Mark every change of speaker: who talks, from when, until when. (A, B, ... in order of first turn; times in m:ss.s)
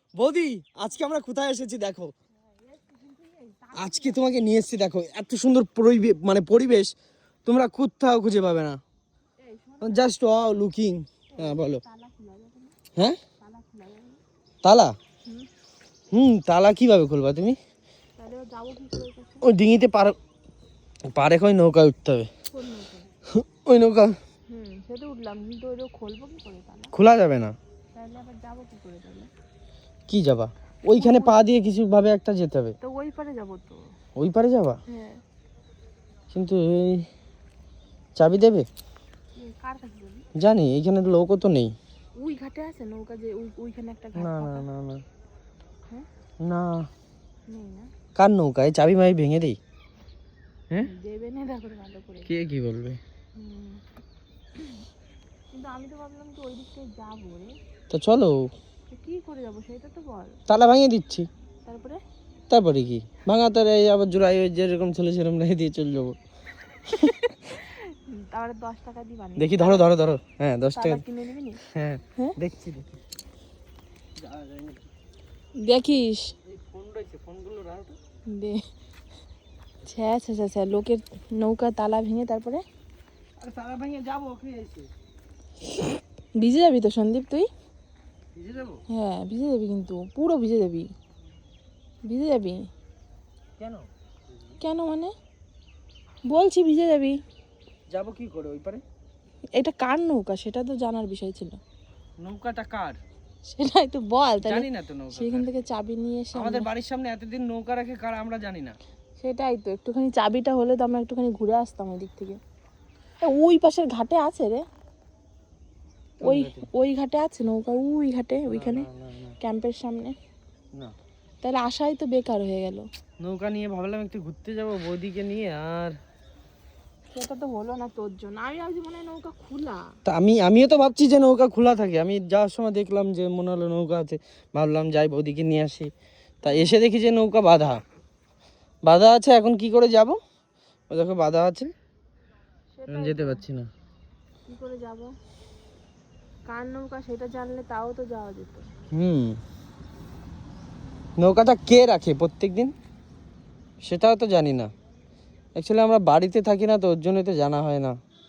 0:00.1-0:02.1 A
0:02.4-0:04.2 B
0:03.7-0:06.9 A
0:07.4-0:08.8 A
0:09.4-0:10.1 B
0:09.8-0:11.8 A
0:11.3-0:12.8 B
0:13.4-0:14.2 B
0:14.6-0:15.0 A
0:16.1-0:17.6 A
0:18.2-0:19.5 B
0:19.4-0:20.2 A
0:21.1-0:22.3 A
0:22.5-0:23.1 B
0:23.4-0:24.2 A
0:24.5-0:26.9 B
0:26.9-0:27.6 A
0:27.9-0:29.3 B
0:30.1-0:32.8 A
0:30.9-0:31.4 B
0:32.8-0:33.8 B
0:34.2-0:34.8 A
0:34.9-0:35.2 B
0:36.3-0:37.0 A
0:38.2-0:38.7 A
0:39.4-0:40.3 B
0:40.4-0:41.7 A
0:42.2-0:44.6 B
0:44.1-0:45.0 A
0:46.4-0:46.8 A
0:47.5-0:47.9 B
0:48.1-0:49.6 A
0:50.8-0:52.3 B
0:52.3-0:53.0 A
0:53.4-0:53.8 B
0:55.5-0:57.6 B
0:57.9-0:58.4 A
0:58.9-1:00.4 B
1:00.5-1:01.3 A
1:01.6-1:02.0 B
1:02.5-1:06.2 A
1:06.9-1:09.9 B
1:09.4-1:11.0 A
1:10.7-1:11.6 B
1:11.7-1:13.0 A
1:14.2-1:14.8 A
1:15.6-1:16.3 B
1:16.4-1:18.0 A
1:18.3-1:18.6 B
1:19.8-1:22.6 B
1:23.4-1:24.9 A
1:26.4-1:27.5 B
1:28.3-1:28.8 A
1:28.9-1:30.9 B
1:32.0-1:32.7 B
1:33.6-1:33.9 A
1:34.6-1:35.1 B
1:36.3-1:37.2 B
1:37.9-1:38.8 A
1:39.6-1:41.6 B
1:42.2-1:43.0 A
1:43.4-1:46.7 B
1:44.4-1:45.5 A
1:46.3-1:48.8 A
1:49.2-1:52.4 B
1:53.2-1:54.6 B
1:56.2-1:56.7 A
1:56.2-1:58.9 B
1:58.5-1:59.4 A
1:59.4-2:00.2 B
2:01.4-2:02.8 B
2:03.2-2:06.0 A
2:07.1-2:09.9 B
2:10.0-2:15.9 A
2:16.4-2:17.8 A
2:16.4-2:16.8 B
2:18.8-2:20.2 A
2:20.9-2:21.7 A
2:22.7-2:23.4 B
2:22.9-2:23.7 A
2:24.5-2:25.1 B
2:26.5-2:28.7 B
2:28.9-2:29.4 A
2:31.2-2:32.7 A
2:33.8-2:34.7 A
2:35.6-2:37.9 A